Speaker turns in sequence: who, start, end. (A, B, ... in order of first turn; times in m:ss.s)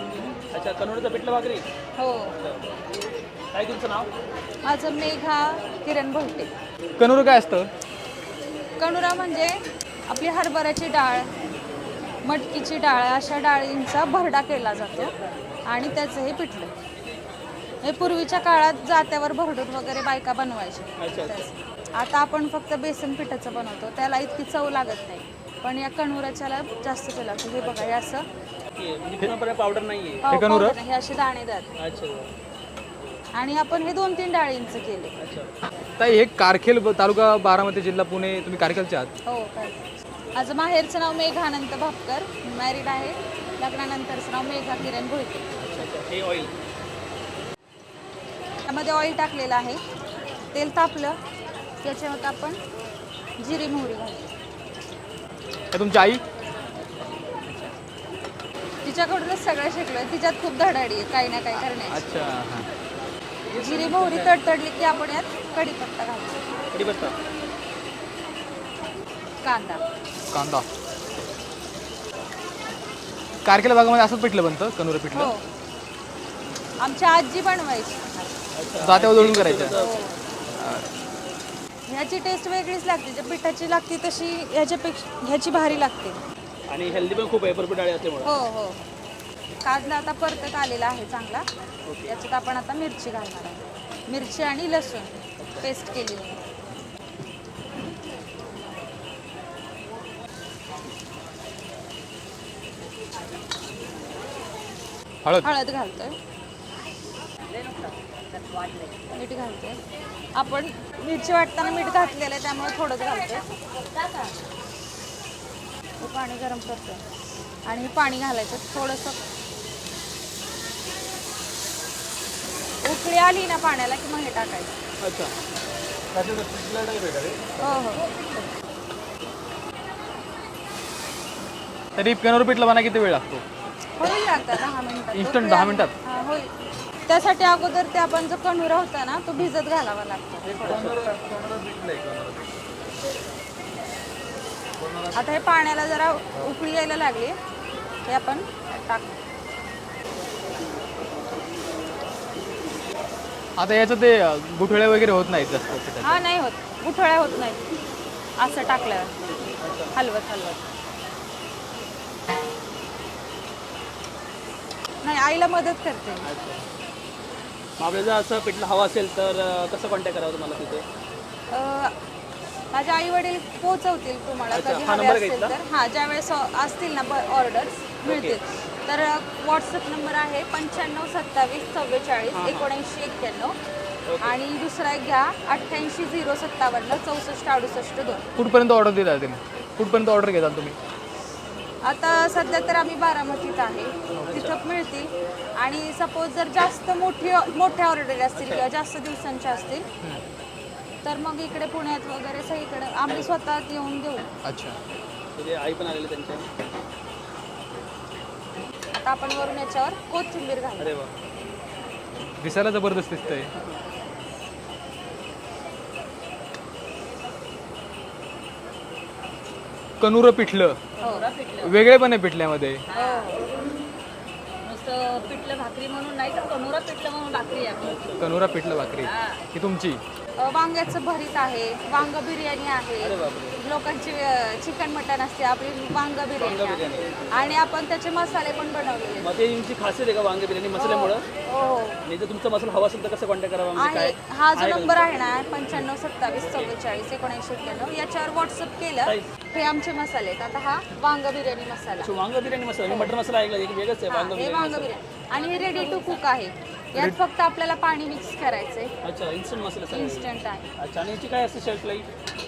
0:00.5-0:01.7 A
0:02.0-0:02.3 B
0:02.4-0:02.7 A
0:03.5-0:04.1 A
0:04.6-0:06.5 B
0:07.0-0:07.7 C
0:08.8-0:11.3 B
0:12.2-0:15.1 B
0:15.7-0:16.7 B
0:17.8-0:28.2 B
0:21.0-0:21.4 A
0:27.6-0:28.0 A
0:28.7-0:30.3 A
0:30.2-0:31.7 B
0:30.3-0:30.8 C
0:31.8-0:32.3 A
0:33.3-0:35.1 B
0:35.2-0:35.5 A
0:36.0-0:39.1 C
0:39.2-0:39.8 B
0:40.3-0:45.5 B
0:45.6-0:46.5 A
0:48.6-0:49.8 B
0:50.5-0:51.2 B
0:51.8-0:52.6 B
0:53.4-0:54.3 B
0:55.7-0:56.2 C
0:58.8-1:02.0 B
1:01.5-1:02.7 C
1:03.5-1:06.4 B
1:03.7-1:04.2 A
1:06.7-1:07.2 A
1:09.4-1:09.8 B
1:10.3-1:10.7 C
1:13.4-1:15.3 C
1:15.1-1:15.4 B
1:16.8-1:18.1 B
1:18.6-1:20.0 A
1:18.8-1:19.8 C
1:19.8-1:20.2 B
1:20.6-1:20.9 C
1:21.9-1:26.2 B
1:26.7-1:28.4 A
1:28.2-1:28.8 B
1:29.6-1:31.4 B
1:31.9-1:32.2 A
1:32.1-1:36.4 B
1:35.4-1:35.7 A
1:45.2-1:45.5 C
1:45.4-1:46.2 B
1:47.5-1:49.0 D
1:49.1-1:49.8 B
1:50.3-1:53.5 B
1:53.6-1:54.3 D
1:56.0-1:57.0 B
1:57.7-1:59.2 B
2:02.8-2:04.7 B
2:05.0-2:05.3 A
2:06.1-2:07.6 C
2:07.6-2:08.2 B
2:12.0-2:13.4 C
2:14.0-2:16.5 B
2:15.1-2:15.9 C
2:17.1-2:20.9 B
2:20.4-2:22.5 C
2:20.6-2:21.0 A
2:24.8-2:25.3 C
2:25.1-2:27.4 B
2:28.0-2:29.1 B
2:33.6-2:36.2 C
2:36.0-2:37.6 B
2:38.4-2:39.1 B
2:39.6-2:39.9 A
2:39.9-2:40.6 B
2:45.0-2:46.3 B
2:46.2-2:46.6 A
2:47.8-2:50.8 A
2:51.5-2:51.9 B
2:52.7-3:03.6 B
2:54.5-2:55.6 A
2:58.0-2:58.4 A
3:02.3-3:02.7 A
3:04.1-3:04.4 A
3:04.2-3:08.2 B
3:08.4-3:10.8 C
3:11.8-3:19.8 B
3:14.3-3:14.6 A
3:18.3-3:18.7 A
3:21.0-3:24.2 B
3:24.4-3:24.8 C
3:25.4-3:26.5 A
3:29.0-3:31.0 B
3:30.8-3:31.1 A
3:32.4-3:33.5 C
3:33.6-3:33.8 A
3:40.0-3:40.8 C
3:41.0-3:41.7 D
3:41.0-3:41.3 B
3:41.6-3:42.8 C
3:42.9-3:43.5 D
3:42.9-3:43.4 B
3:44.6-3:48.1 D
3:47.8-3:48.3 A
3:48.2-3:50.0 C
3:49.0-3:49.4 D
3:50.4-3:59.3 B
3:53.0-3:53.6 A
3:56.4-3:57.1 A
3:59.2-4:01.2 A
4:00.8-4:02.0 B
4:02.0-4:05.2 A
4:03.7-4:12.1 B
4:06.4-4:06.8 A
4:12.0-4:15.0 A
4:12.9-4:13.1 B
4:14.1-4:18.9 B
4:15.3-4:16.2 D
4:19.0-4:22.1 A
4:19.9-4:20.7 B